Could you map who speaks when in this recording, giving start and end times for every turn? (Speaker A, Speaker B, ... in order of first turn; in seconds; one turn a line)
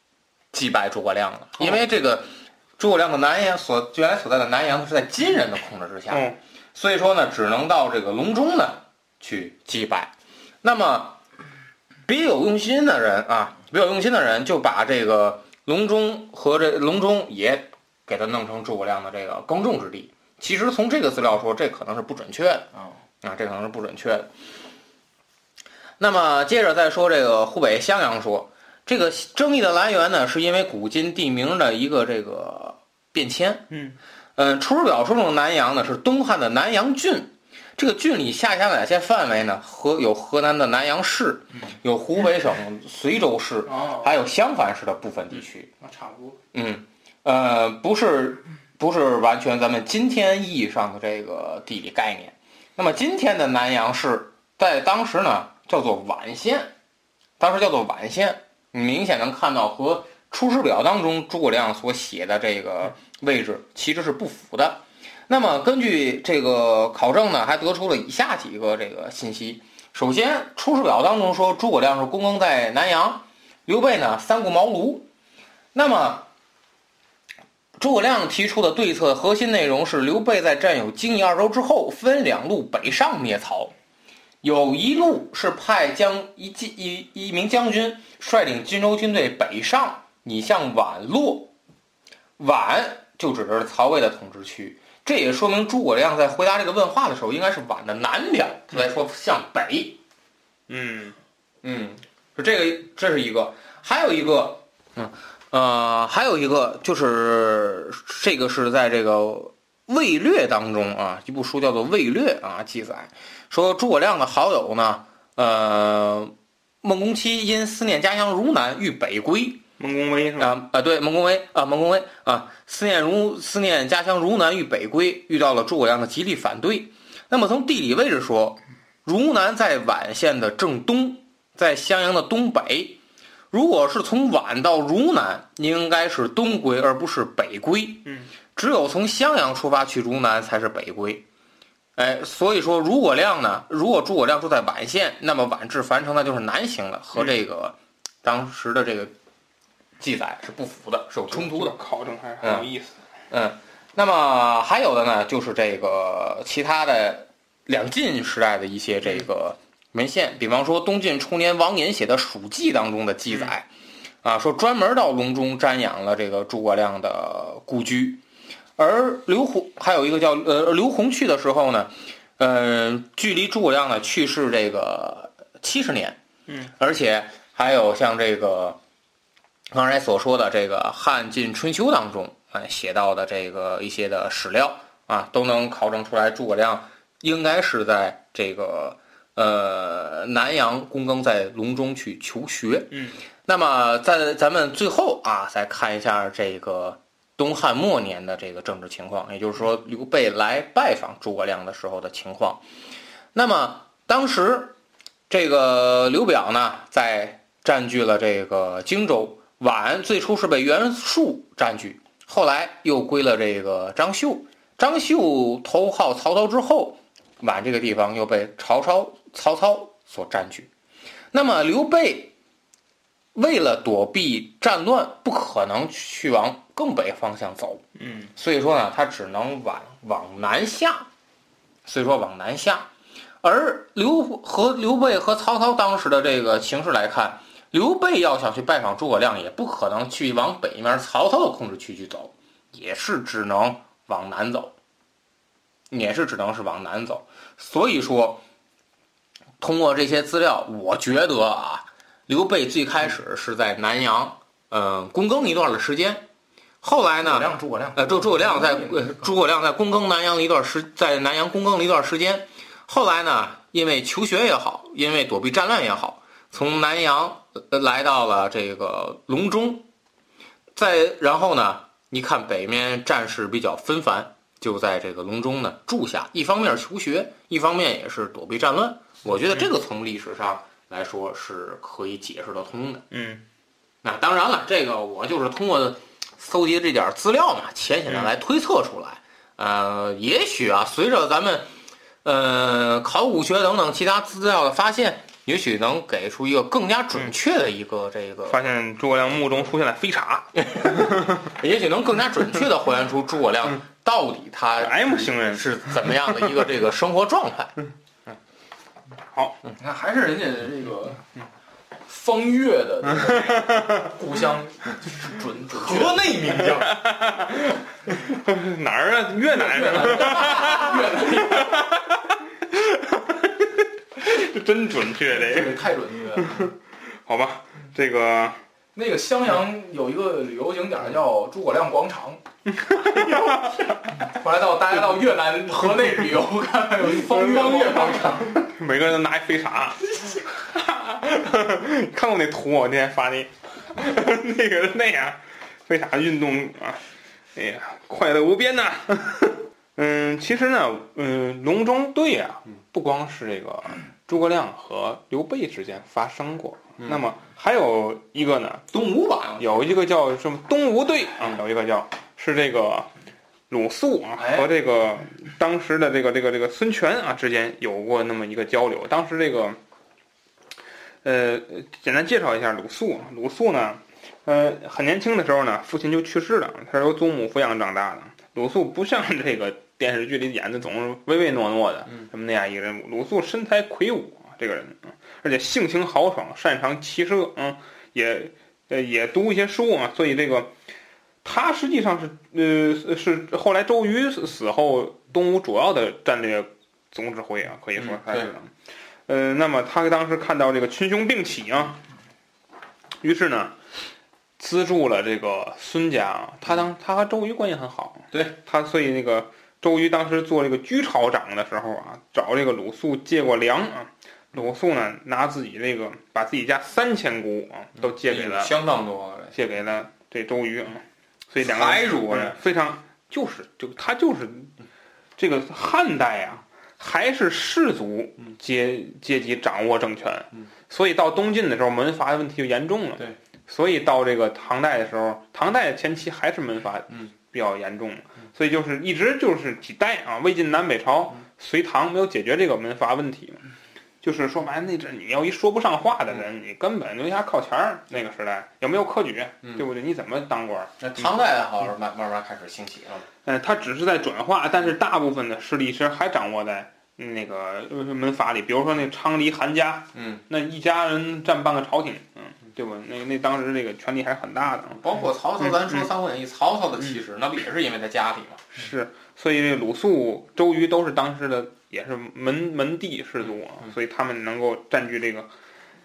Speaker A: 0.5-11.2
Speaker B: 6.1-6.4
Speaker A: 12.1-22.7
Speaker A: 23.2-24.3
Speaker A: 26.0-33.7
Speaker B: 33.7-34.0
Speaker A: 34.4-45.7
Speaker C: 43.6-44.1
Speaker C: 45.8-46.4
Speaker A: 46.5-56.7
Speaker A: 57.4-75.1
Speaker A: 75.7-76.3
Speaker A: 77.8-83.7
Speaker A: 84.4-91.5
Speaker A: 92.4-100.0
Speaker B: 100.7-101.2
Speaker A: 101.6-119.6
Speaker B: 119.8-120.5
Speaker A: 120.4-133.0
Speaker A: 133.5-141.2
Speaker A: 142.0-149.1
Speaker A: 150.0-151.8
Speaker B: 151.3-153.0
Speaker A: 152.4-152.7
Speaker A: 153.3-163.7
Speaker A: 164.2-168.2
Speaker A: 168.8-176.2
Speaker A: 176.8-178.8
Speaker A: 179.7-202.6
Speaker A: 203.3-204.8
Speaker A: 205.3-220.7
Speaker A: 221.3-222.3
Speaker A: 223.3-227.8
Speaker B: 228.0-228.3
Speaker A: 228.3-231.1
Speaker A: 231.8-232.9
Speaker A: 233.4-244.7
Speaker A: 245.9-248.4
Speaker A: 249.6-256.3
Speaker A: 256.8-269.9
Speaker C: 257.2-259.2
Speaker A: 270.7-283.1
Speaker B: 283.1-283.4
Speaker A: 284.0-291.7
Speaker A: 292.2-298.6
Speaker B: 298.5-301.1
Speaker A: 300.7-307.7
Speaker B: 304.8-306.3
Speaker B: 309.3-309.6
Speaker C: 309.8-311.2
Speaker C: 312.1-316.2
Speaker A: 315.7-317.0
Speaker B: 316.6-325.8
Speaker C: 319.6-321.8
Speaker C: 325.3-326.7
Speaker B: 326.4-326.7
Speaker B: 327.2-328.6
Speaker C: 328.9-332.4
Speaker B: 332.8-334.0
Speaker C: 333.0-338.6
Speaker B: 337.3-347.0
Speaker B: 347.5-358.8
Speaker A: 358.9-359.7
Speaker B: 359.6-363.1
Speaker B: 363.7-369.8
Speaker A: 364.4-364.6
Speaker B: 371.2-390.7
Speaker B: 391.4-398.7
Speaker A: 398.0-398.5
Speaker B: 399.3-402.0
Speaker B: 403.2-403.7
Speaker B: 404.6-418.7
Speaker A: 418.2-419.6
Speaker B: 419.5-424.7
Speaker A: 421.6-422.6
Speaker B: 425.4-443.6
Speaker B: 444.2-451.3
Speaker A: 451.0-453.2
Speaker B: 453.4-465.0
Speaker A: 460.1-460.4
Speaker A: 464.9-468.6
Speaker B: 465.6-466.1
Speaker B: 468.7-475.5